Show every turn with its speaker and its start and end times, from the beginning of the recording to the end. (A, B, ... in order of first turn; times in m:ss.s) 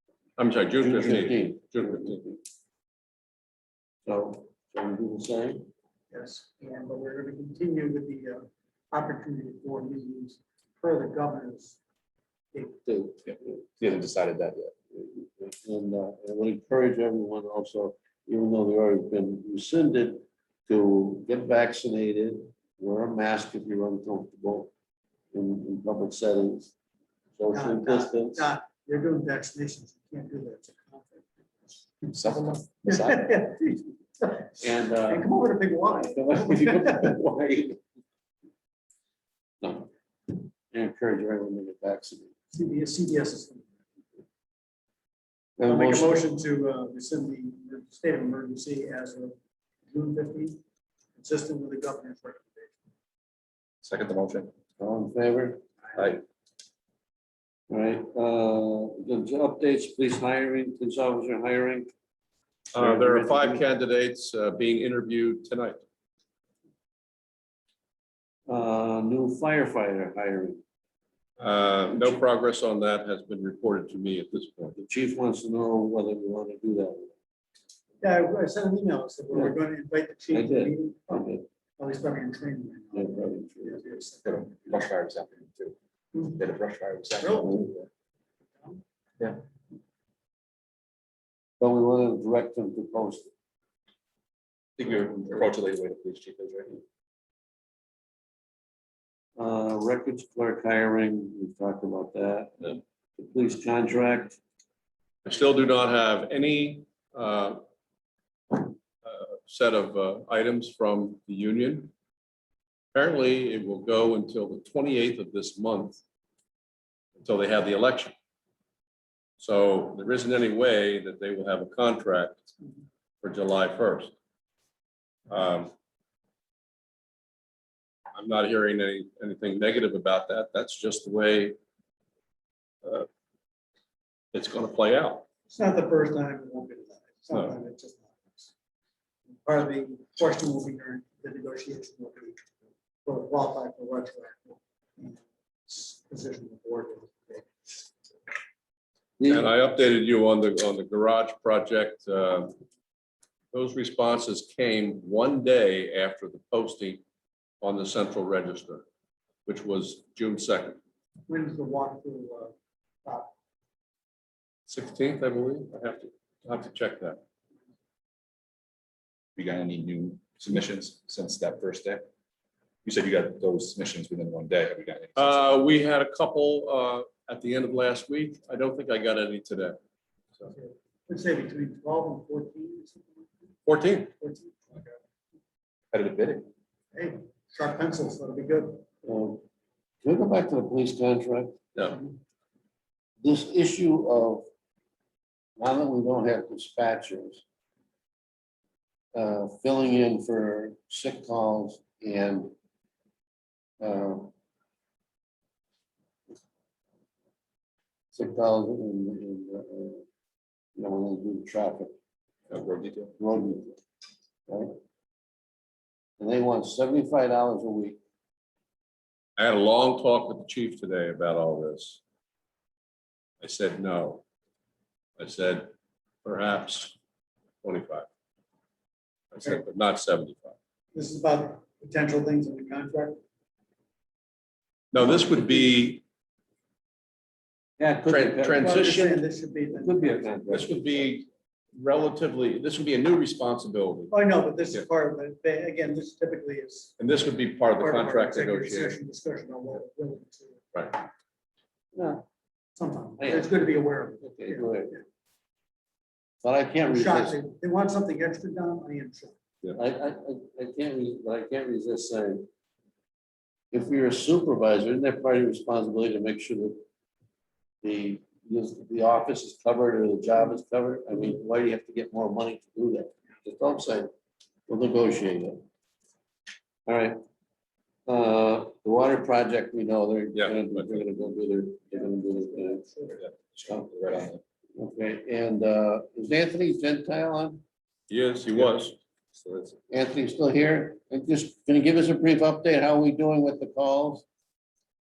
0:00.4-0:02.2 A
0:00.8-0:02.4 B
0:04.0-0:05.6 B
0:06.1-0:11.8 C
0:12.5-0:13.0 C
0:12.9-0:13.5 B
0:13.3-0:14.7 D
0:14.9-0:24.7 B
0:25.3-0:26.7 B
0:27.4-0:28.5 B
0:27.5-0:31.2 C
0:32.1-0:32.7 D
0:32.8-0:37.1 C
0:34.6-0:37.8 B
0:39.6-0:42.3 B
0:42.5-0:43.7 C
0:45.6-0:46.3 B
0:45.6-0:49.4 C
0:49.9-0:50.6 C
0:51.2-0:52.8 C
0:53.8-0:54.5 D
0:54.8-0:55.6 B
0:57.7-1:01.9 B
1:02.7-1:05.8 A
1:02.7-1:03.6 B
1:08.5-1:10.6 B
1:11.4-1:14.7 A
1:14.8-1:17.1 B
1:18.0-1:24.7 C
1:19.3-1:19.6 B
1:20.3-1:21.4 B
1:22.9-1:23.8 B
1:24.2-1:25.8 D
1:26.1-1:26.4 C
1:26.3-1:27.9 D
1:27.2-1:27.6 C
1:31.6-1:33.3 B
1:34.8-1:36.8 D
1:39.4-1:44.4 B
1:45.2-1:47.6 A
1:48.5-1:51.9 A
1:52.9-1:56.0 A
1:57.2-1:58.1 A
1:59.4-2:02.4 A
2:03.2-2:04.1 A
2:05.3-2:05.7 A
2:08.1-2:11.6 A
2:14.3-2:15.2 A
2:15.5-2:18.5 C
2:19.4-2:22.4 C
2:23.0-2:27.7 C
2:29.2-2:29.5 B
2:29.3-2:32.5 A
2:33.5-2:37.0 A
2:37.6-2:38.8 A
2:39.4-2:40.8 A
2:41.3-2:42.5 C
2:43.0-2:43.3 C
2:44.7-2:47.2 A
2:49.4-2:52.0 D
2:52.8-2:55.5 D
2:55.2-2:59.8 A
3:00.5-3:03.5 C
3:03.6-3:04.1 A
3:04.2-3:05.0 C
3:05.9-3:06.5 D
3:06.9-3:08.8 C
3:09.0-3:09.4 B
3:10.0-3:11.6 B
3:13.2-3:14.5 B
3:15.6-3:17.4 B
3:19.1-3:22.5 B
3:23.8-3:24.3 B
3:28.1-3:30.0 B
3:30.8-3:31.9 B
3:32.5-3:33.1 D
3:33.2-3:33.8 B
3:34.5-3:34.8 B
3:36.2-3:38.0 B
3:39.4-3:42.0 A
3:43.4-3:44.2 A
3:45.2-3:45.7 A
3:46.2-3:47.0 A
3:47.6-3:48.1 A
3:49.3-3:50.6 A
3:50.9-3:53.2 C
3:54.9-3:56.0 A
3:57.8-3:58.8 B
3:58.1-3:59.2 A
3:58.6-4:00.6 C
3:59.7-4:00.9 B
4:00.5-4:04.1 A
4:04.1-4:06.9 C
4:07.0-4:09.0 A
4:07.8-4:10.7 C
4:10.7-4:11.0 A
4:11.9-4:12.2 B
4:12.8-4:15.0 C
4:13.2-4:15.0 B
4:16.4-4:17.4 B
4:16.8-4:19.4 C
4:19.7-4:22.5 B
4:23.7-4:26.8 B
4:27.8-4:34.1 B
4:34.7-4:35.6 B
4:36.8-4:37.2 B
4:38.0-4:42.8 B
4:40.3-4:41.0 A
4:41.9-4:43.2 C
4:43.2-4:44.4 D
4:44.8-4:47.6 B
4:48.1-4:49.6 A
4:49.9-4:54.2 B